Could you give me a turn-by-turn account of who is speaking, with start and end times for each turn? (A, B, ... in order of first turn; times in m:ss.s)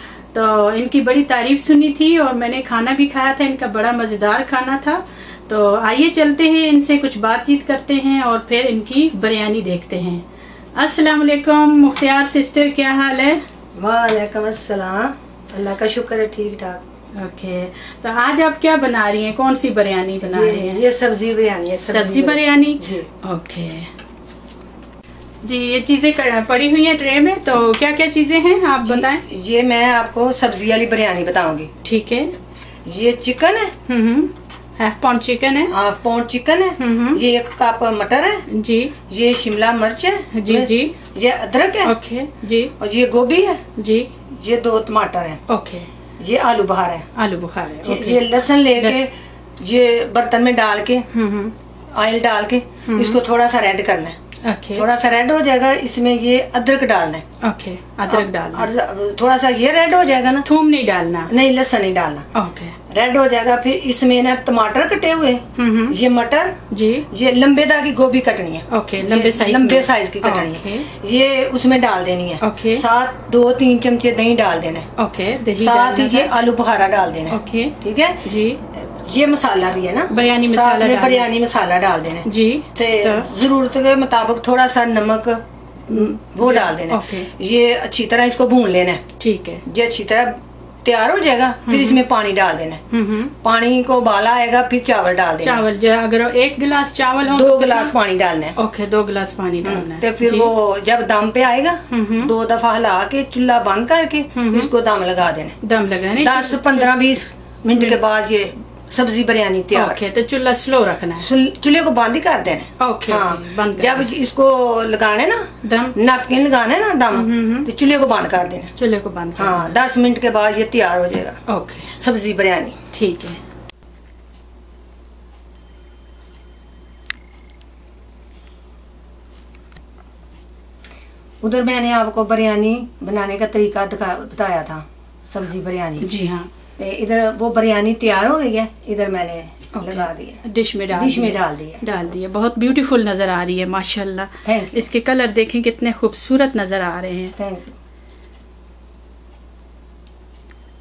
0:00.3-0:10.2 A
0:10.8-0:13.4 A
0:13.8-0:16.8 B
0:17.2-0:20.8 A
0:20.2-0:23.1 B
0:21.9-0:23.9 A
0:25.4-0:29.2 A
0:28.8-0:31.7 B
0:31.8-0:32.3 A
0:32.9-0:33.7 B
0:33.9-0:35.7 A
0:35.7-0:38.4 B
0:36.8-0:37.2 A
0:38.5-0:39.0 A
0:39.1-0:42.0 B
0:40.3-0:41.0 A
0:41.8-0:42.7 A
0:42.8-0:43.6 B
0:43.8-0:44.1 A
0:44.3-0:45.4 B
0:45.5-0:45.9 A
0:46.2-0:47.1 B
0:47.2-0:49.1 A
0:47.8-0:51.1 B
0:51.1-0:51.5 A
0:51.9-0:54.2 B
0:52.9-0:53.2 A
0:54.4-0:54.9 A
0:54.8-0:57.2 B
0:57.4-0:58.7 A
0:58.1-1:00.5 B
1:00.4-1:01.3 A
1:01.3-1:02.3 B
1:02.4-1:02.8 A
1:02.9-1:06.6 B
1:05.6-1:06.0 A
1:06.7-1:07.1 A
1:07.1-1:14.9 B
1:08.7-1:10.9 A
1:12.4-1:12.8 A
1:15.0-1:16.4 A
1:15.6-1:18.2 B
1:17.3-1:18.6 A
1:18.8-1:29.0 B
1:20.1-1:21.3 A
1:22.2-1:23.3 A
1:25.9-1:27.3 A
1:29.2-1:29.6 A
1:29.7-1:32.8 B
1:31.7-1:32.0 A
1:32.9-1:33.3 A
1:33.4-1:35.7 B
1:35.4-1:38.0 A
1:37.2-1:38.6 B
1:38.6-1:40.5 A
1:39.6-1:45.6 B
1:41.9-1:42.3 A
1:44.4-1:44.7 A
1:45.6-1:46.9 A
1:46.2-1:50.0 B
1:49.7-1:51.3 A
1:51.2-1:58.7 B
1:52.8-1:54.1 A
1:55.6-1:56.0 A
1:57.1-1:57.7 A
1:58.8-1:59.8 A
1:59.4-2:01.4 B
2:01.5-2:01.9 A
2:02.0-2:02.8 B
2:02.9-2:03.4 A
2:11.4-2:16.1 B
2:16.0-2:16.5 A
2:16.8-2:21.8 B
2:19.8-2:27.4 A
2:24.4-2:24.9 B
2:27.4-2:27.8 B